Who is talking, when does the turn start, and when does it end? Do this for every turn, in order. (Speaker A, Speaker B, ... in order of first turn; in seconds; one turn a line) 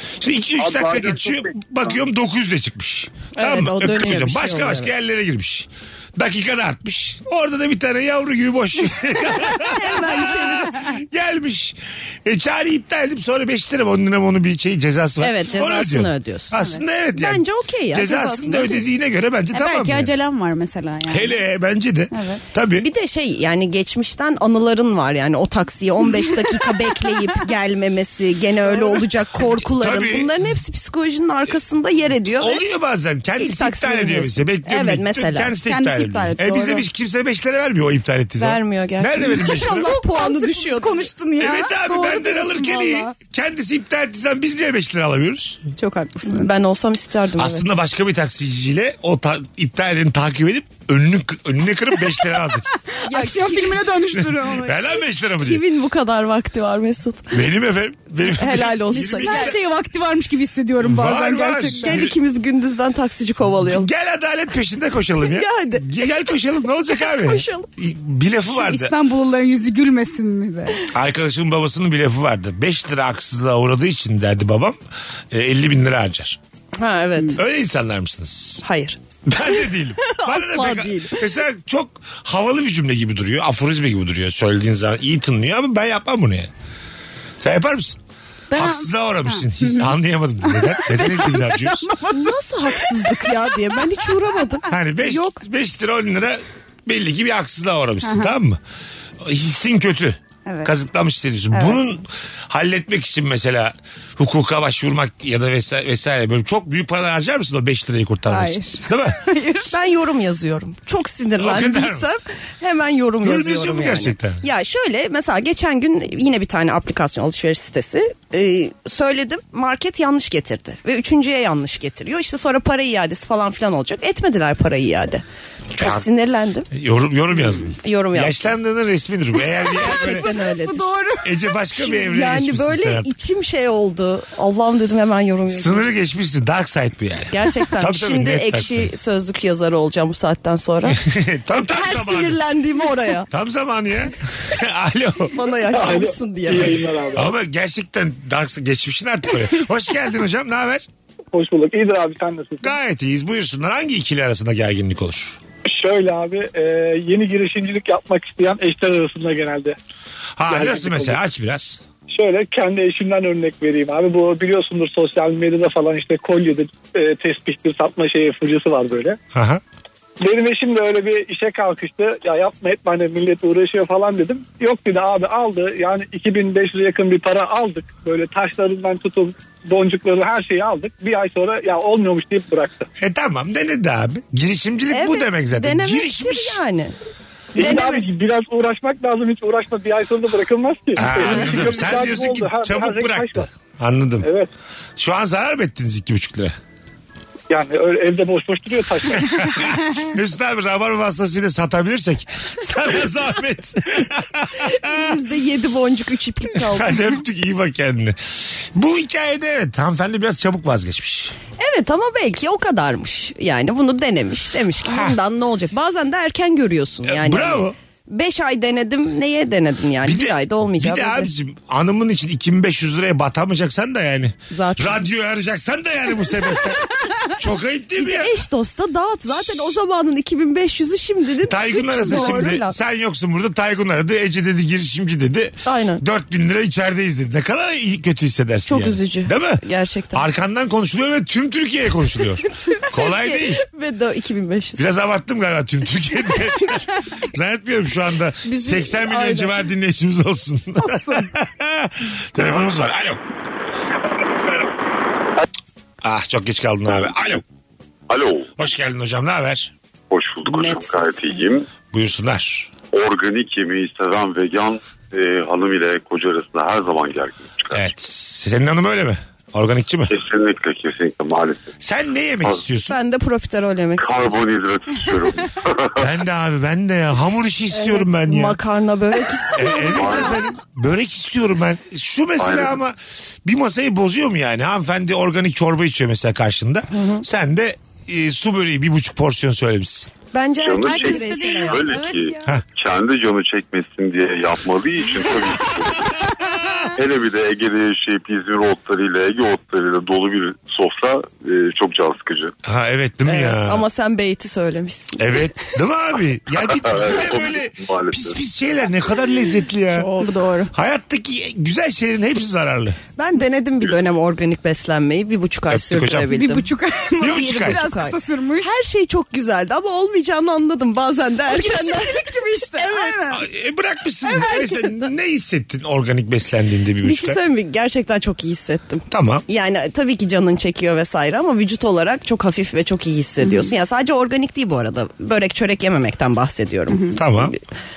Speaker A: 0.2-20.1
Speaker B: 3.4-4.9
Speaker B: 9.6-10.7
Speaker B: 15.2-16.5
Speaker B: 17.1-18.9
Speaker C: 19.5-21.3
Speaker A: 21.1-22.9
Speaker C: 22.1-22.4
Speaker B: 22.8-32.6
Speaker A: 29.5-30.3
Speaker A: 32.4-39.9
Speaker B: 33.4-35.5
Speaker C: 35.7-36.8
Speaker B: 38.4-41.1
Speaker C: 39.2-43.1
Speaker A: 41.4-45.6
Speaker C: 45.8-46.5
Speaker B: 46.2-47.7
Speaker A: 47.4-52.7
Speaker C: 52.9-54.9
Speaker B: 53.0-53.8
Speaker A: 54.1-55.6
Speaker B: 55.4-57.3
Speaker A: 57.3-59.6
Speaker B: 58.3-59.5
Speaker C: 59.2-62.0
Speaker A: 60.8-62.1
Speaker B: 61.8-63.9
Speaker A: 63.6-68.9
Speaker B: 65.3-65.8
Speaker B: 66.9-67.7
Speaker C: 68.5-70.8
Speaker A: 70.9-74.8
Speaker A: 75.3-76.4
Speaker B: 76.8-77.4
Speaker A: 77.3-78.6
Speaker B: 78.6-79.0
Speaker A: 79.3-86.5
Speaker B: 80.0-81.2
Speaker A: 87.4-88.0
Speaker C: 88.5-89.9
Speaker A: 88.5-91.9
Speaker C: 90.5-92.3
Speaker B: 92.1-94.7
Speaker C: 93.1-93.3
Speaker A: 94.7-98.6
Speaker C: 95.0-95.3
Speaker C: 98.0-98.3
Speaker A: 99.2-109.2
Speaker C: 100.5-100.8
Speaker C: 101.5-101.8
Speaker C: 108.3-109.7
Speaker B: 109.7-125.2
Speaker A: 111.4-112.1
Speaker A: 113.2-114.4
Speaker A: 125.7-126.0
Speaker B: 125.7-126.7
Speaker A: 126.7-130.2
Speaker B: 127.7-128.5
Speaker C: 129.7-131.5
Speaker B: 129.8-130.8
Speaker A: 131.2-133.1
Speaker B: 131.8-135.8
Speaker A: 135.5-138.9
Speaker B: 137.3-141.0
Speaker A: 140.8-142.4
Speaker B: 141.6-143.3
Speaker A: 143.3-145.3
Speaker B: 145.3-146.8
Speaker D: 145.7-147.3
Speaker A: 147.1-150.8
Speaker D: 151.3-152.7
Speaker A: 152.6-155.4
Speaker D: 155.7-159.8
Speaker A: 160.4-161.8
Speaker D: 160.5-161.2
Speaker D: 162.1-169.2
Speaker A: 169.3-169.6
Speaker D: 170.2-182.9
Speaker A: 183.0-186.6
Speaker B: 184.9-186.9
Speaker D: 187.6-193.5
Speaker B: 187.6-188.1
Speaker A: 190.9-194.3
Speaker D: 194.2-194.5
Speaker A: 195.0-196.6
Speaker D: 197.5-199.5
Speaker A: 199.2-205.2
Speaker B: 204.6-207.0
Speaker A: 206.5-208.2
Speaker A: 208.7-211.3
Speaker B: 211.6-221.3
Speaker A: 214.8-215.2
Speaker A: 217.0-217.7
Speaker A: 220.0-228.3
Speaker B: 224.5-225.0
Speaker B: 228.0-232.8
Speaker A: 229.3-229.8
Speaker A: 231.4-243.6
Speaker C: 232.1-232.5
Speaker B: 235.6-236.0
Speaker B: 238.7-240.2
Speaker B: 242.5-244.8
Speaker A: 244.8-253.2
Speaker B: 248.4-249.6
Speaker C: 250.8-251.3
Speaker A: 256.0-257.4
Speaker E: 258.1-258.6
Speaker A: 258.6-259.7
Speaker E: 260.1-261.7
Speaker B: 260.4-261.4
Speaker A: 261.9-262.7
Speaker E: 262.9-267.9
Speaker A: 267.7-270.1
Speaker E: 270.1-271.8
Speaker A: 271.8-272.9
Speaker B: 272.8-274.4
Speaker E: 274.0-276.1
Speaker A: 276.0-278.6
Speaker B: 277.7-280.3
Speaker A: 279.5-290.1
Speaker E: 280.0-280.4
Speaker E: 282.4-282.8
Speaker B: 286.9-287.2
Speaker B: 290.3-292.2
Speaker E: 290.6-296.1
Speaker C: 290.7-292.4
Speaker E: 296.9-302.5
Speaker A: 302.6-303.8
Speaker B: 303.2-305.4
Speaker A: 305.2-310.1
Speaker E: 306.6-308.4
Speaker B: 309.9-310.7
Speaker A: 310.7-313.0
Speaker B: 313.2-316.7
Speaker A: 315.7-316.3
Speaker C: 316.3-318.7
Speaker A: 317.2-317.8
Speaker B: 317.3-322.2
Speaker C: 321.5-323.4
Speaker B: 322.7-323.3
Speaker A: 323.3-327.4
Speaker B: 327.0-337.5
Speaker A: 329.1-329.4
Speaker C: 333.4-333.7
Speaker C: 336.9-337.2
Speaker A: 337.1-337.5